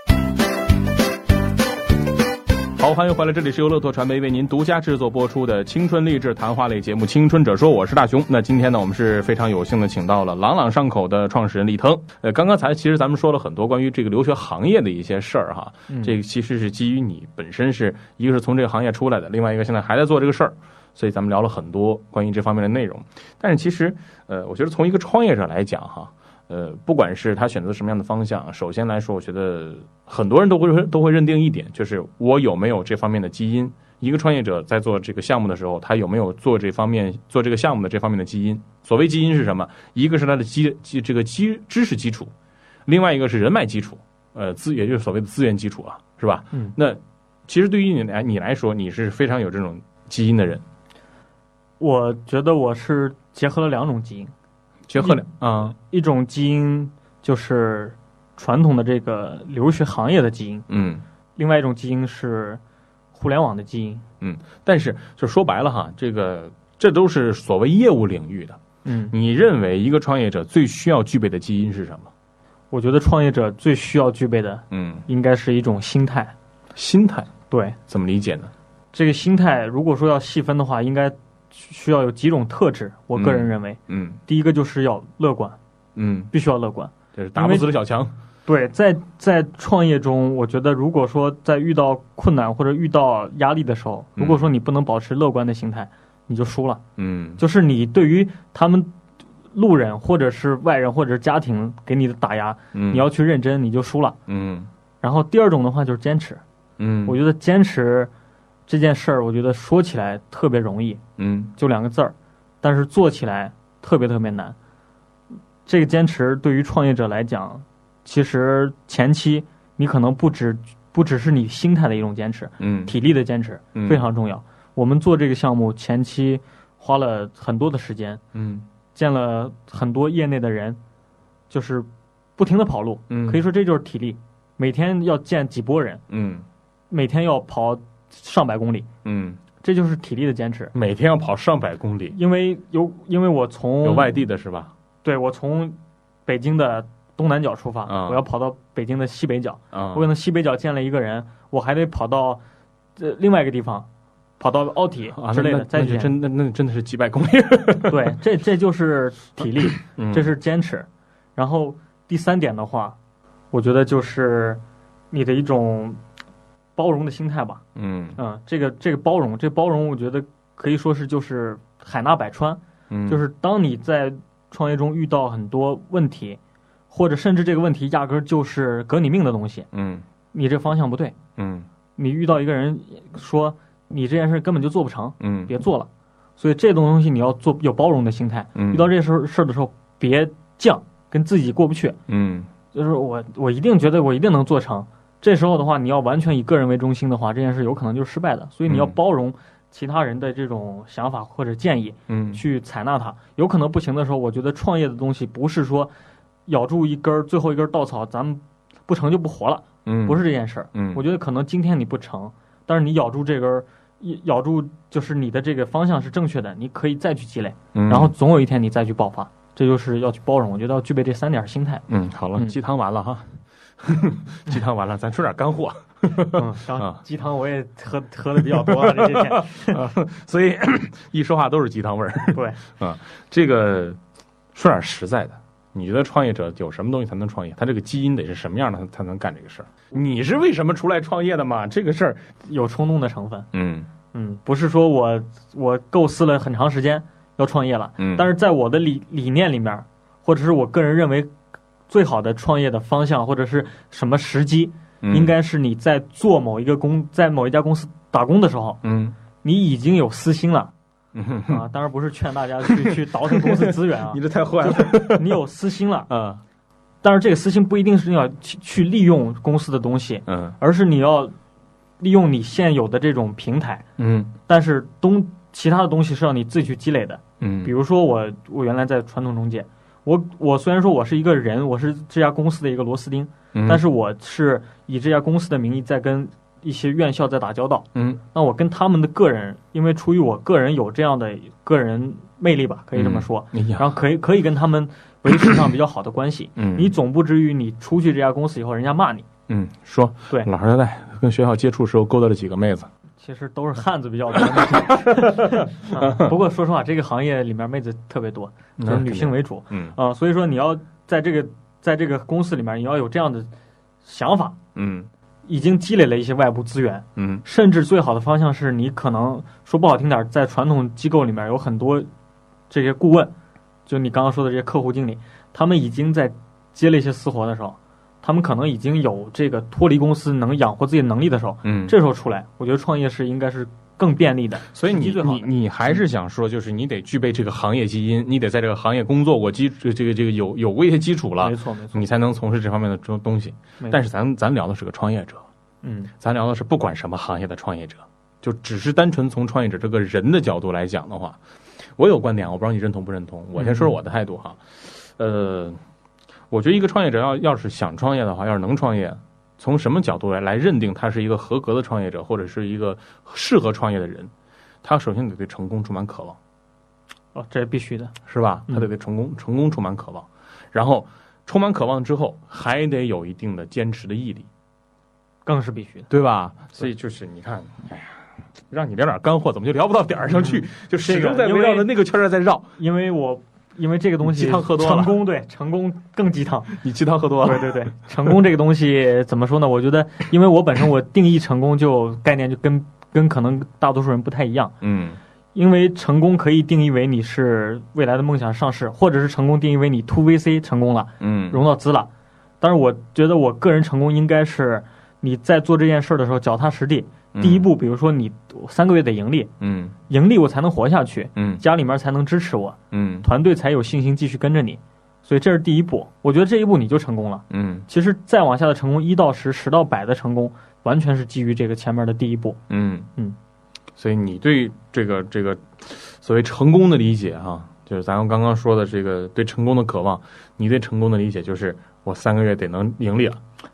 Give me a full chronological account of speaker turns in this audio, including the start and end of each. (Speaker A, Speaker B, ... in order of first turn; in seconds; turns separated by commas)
Speaker A: 2.8-42.3, Speaker B: 15.9-16.1, Speaker A: 42.9-50.6, Speaker B: 51.8-54.3, Speaker A: 54.9-55.7, Speaker B: 55.0-60.6, Speaker A: 60.7-61.0, Speaker B: 61.4-62.6, Speaker B: 63.1-64.0, Speaker A: 64.2-68.6, Speaker B: 68.8-69.1, Speaker A: 69.1-72.1, Speaker B: 72.7-76.3, Speaker A: 74.7-75.0, Speaker A: 76.7-77.3, Speaker B: 77.5-77.8, Speaker A: 77.9-78.5, Speaker B: 78.9-85.6, Speaker A: 83.1-84.2, Speaker A: 86.0-86.3, Speaker B: 86.3-87.7, Speaker A: 87.1-88.1, Speaker B: 88.5-96.8, Speaker A: 94.2-94.4, Speaker A: 97.0-97.4, Speaker B: 97.4-98.9, Speaker B: 99.5-104.2, Speaker A: 102.7-103.0, Speaker A: 104.3-104.7, Speaker B: 105.0-106.4, Speaker A: 106.8-107.2, Speaker B: 107.0-108.1, Speaker B: 108.7-111.0, Speaker A: 111.2-111.5, Speaker B: 111.6-114.5, Speaker B: 115.7-128.2, Speaker A: 122.6-122.9, Speaker A: 123.7-124.0, Speaker A: 128.3-128.7, Speaker B: 128.9-130.8, Speaker B: 131.5-136.0, Speaker A: 133.1-133.4, Speaker A: 136.1-136.4, Speaker B: 136.9-138.9, Speaker A: 139.0-139.4, Speaker B: 139.6-140.7, Speaker A: 140.7-142.2, Speaker B: 142.1-144.2, Speaker A: 143.8-144.7, Speaker B: 145.0-152.4, Speaker A: 147.9-148.2, Speaker A: 149.7-150.1, Speaker B: 153.0-153.9, Speaker B: 154.4-156.1, Speaker A: 155.1-158.1, Speaker B: 157.9-163.0, Speaker A: 159.9-160.3, Speaker B: 163.5-166.0, Speaker B: 166.8-167.6, Speaker A: 167.8-168.2, Speaker B: 168.2-176.4, Speaker A: 172.9-173.2, Speaker B: 176.9-179.7, Speaker A: 179.7-180.0, Speaker B: 180.3-181.2, Speaker A: 181.4-181.7, Speaker B: 182.0-192.0, Speaker A: 185.2-185.5, Speaker A: 188.6-188.9, Speaker A: 192.1-192.5, Speaker B: 192.7-205.9, Speaker A: 198.7-198.9, Speaker A: 202.1-202.4, Speaker B: 206.4-221.8, Speaker A: 209.8-210.2, Speaker A: 210.7-211.0, Speaker A: 217.7-218.1, Speaker A: 221.9-227.0, Speaker B: 226.3-229.8, Speaker A: 228.4-234.0, Speaker B: 232.3-232.6, Speaker A: 234.5-242.3, Speaker B: 242.4-243.5, Speaker A: 243.5-243.9, Speaker B: 244.1-251.3, Speaker A: 248.0-248.2, Speaker B: 251.9-258.8, Speaker A: 255.0-255.3, Speaker A: 258.8-259.1, Speaker B: 259.4-260.7, Speaker A: 261.1-261.6, Speaker B: 261.5-266.1, Speaker A: 262.6-265.3, Speaker A: 266.1-266.4, Speaker B: 267.0-271.3, Speaker A: 270.3-270.5, Speaker B: 272.0-273.8, Speaker A: 274.0-274.3, Speaker B: 274.5-299.3, Speaker A: 277.4-277.7, Speaker A: 283.5-283.8, Speaker A: 287.9-288.2, Speaker A: 292.9-293.8, Speaker A: 296.6-296.9, Speaker A: 299.5-302.9, Speaker B: 303.2-313.5, Speaker A: 304.5-306.3, Speaker A: 308.8-309.9, Speaker B: 314.0-314.6, Speaker A: 314.7-315.1, Speaker B: 315.5-322.1, Speaker A: 317.2-317.4, Speaker B: 322.7-323.3, Speaker B: 323.9-336.0, Speaker A: 331.6-331.9, Speaker A: 334.7-345.4, Speaker B: 341.4-342.1, Speaker B: 345.8-346.1, Speaker A: 346.2-351.4, Speaker A: 352.0-355.8, Speaker B: 353.6-353.9, Speaker A: 356.5-364.3, Speaker A: 364.8-366.4, Speaker B: 367.3-368.1, Speaker A: 368.2-374.5, Speaker B: 375.4-376.1, Speaker A: 376.1-378.2, Speaker A: 378.7-382.7, Speaker B: 380.4-381.9, Speaker B: 382.8-386.8, Speaker A: 384.2-385.2, Speaker A: 386.7-387.8, Speaker B: 387.4-394.7, Speaker A: 394.8-395.2, Speaker B: 395.5-402.1, Speaker A: 401.2-401.6, Speaker B: 402.6-409.5, Speaker A: 407.3-407.7, Speaker A: 409.6-409.9, Speaker B: 410.1-422.6, Speaker A: 411.4-411.6, Speaker A: 412.9-413.2, Speaker A: 417.5-417.9, Speaker A: 422.7-423.1, Speaker A: 424.0-433.4